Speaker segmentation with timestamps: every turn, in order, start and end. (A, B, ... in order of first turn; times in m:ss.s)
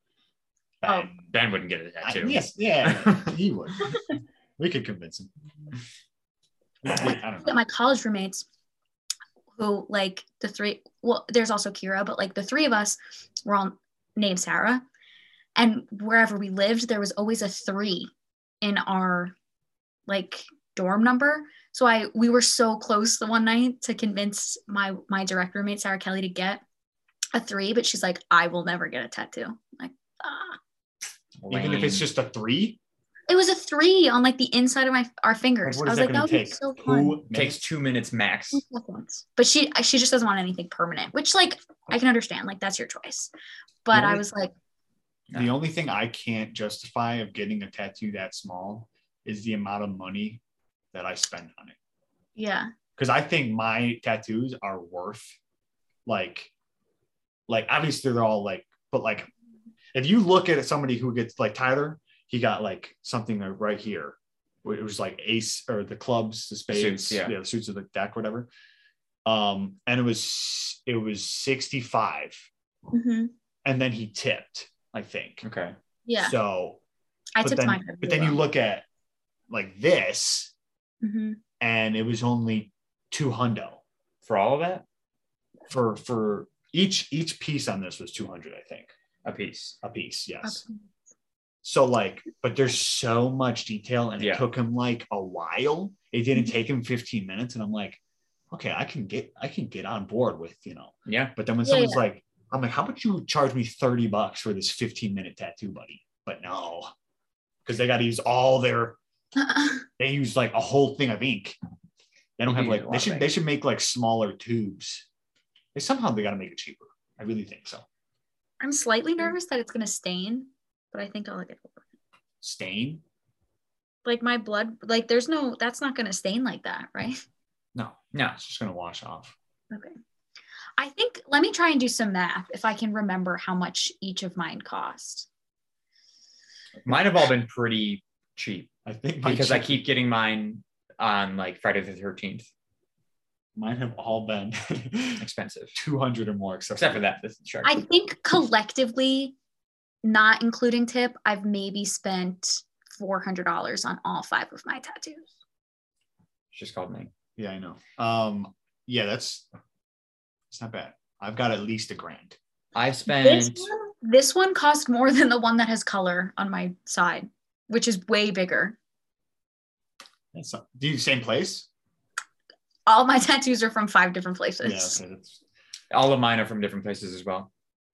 0:00.8-0:01.3 A
0:00.8-0:01.1 B
0:01.3-0:03.3 C
0:02.0-0:04.0 A
0:04.6-0:05.3 A
0:06.8-0:07.6 A
0:07.4-0:08.5 B
0:09.6-0:14.8 B
0:15.6-0:18.1 B
0:18.6-0:19.4 B
0:20.1-0:26.6 B
0:27.3-0:30.6 B
0:31.4-0:32.1 C
0:31.5-0:32.8 A
0:33.3-0:37.2 B
0:35.6-0:37.7 A
0:37.3-0:38.6 C
0:38.5-0:43.3 B
0:43.8-0:44.5 B
0:43.9-0:44.2 A
0:45.3-0:50.4 A
0:50.9-0:51.8 A
0:52.4-0:52.7 B
0:53.0-0:55.4 A
0:56.1-0:56.5 A
0:57.5-0:59.3 A
0:59.9-1:08.5 A
1:06.7-1:07.4 C
1:09.3-1:12.5 A
1:12.9-1:13.3 B
1:13.6-1:15.4 A
1:15.4-1:15.8 C
1:16.1-1:16.4 B
1:16.2-1:16.8 A
1:17.4-1:18.4 B
1:17.4-1:18.8 A
1:19.5-1:20.5 A
1:21.0-1:21.4 B
1:21.6-1:23.8 A
1:24.2-1:24.8 C
1:25.7-1:28.9 A
1:29.2-1:29.8 C
1:29.8-1:30.6 A
1:30.4-1:30.8 B
1:31.6-1:38.0 A
1:34.2-1:34.5 C
1:38.5-1:46.9 A
1:41.1-1:41.3 C
1:41.6-1:42.0 B
1:47.6-1:49.0 A
1:49.4-1:49.8 B
1:50.0-1:51.6 A
1:52.4-1:55.1 A
1:52.5-1:53.3 C
1:55.7-1:57.9 A
1:58.6-2:01.8 B
2:02.4-2:03.0 A
2:04.0-2:07.2 B
2:07.8-2:09.4 A
2:08.1-2:08.4 C
2:10.8-2:15.3 B
2:16.9-2:18.7 C
2:18.9-2:19.8 A
2:19.2-2:22.5 C
2:23.6-2:25.2 A
2:25.2-2:25.8 C
2:25.8-2:27.0 A
2:26.8-2:27.8 C
2:27.6-2:29.4 B
2:30.0-2:35.3 B
2:36.5-2:37.1 C
2:37.4-2:39.5 A
2:40.5-2:42.4 A
2:42.8-2:43.7 C
2:43.1-2:48.8 B
2:50.3-2:51.7 A
2:52.9-2:55.0 B
2:54.6-2:55.4 A
2:55.9-2:57.5 C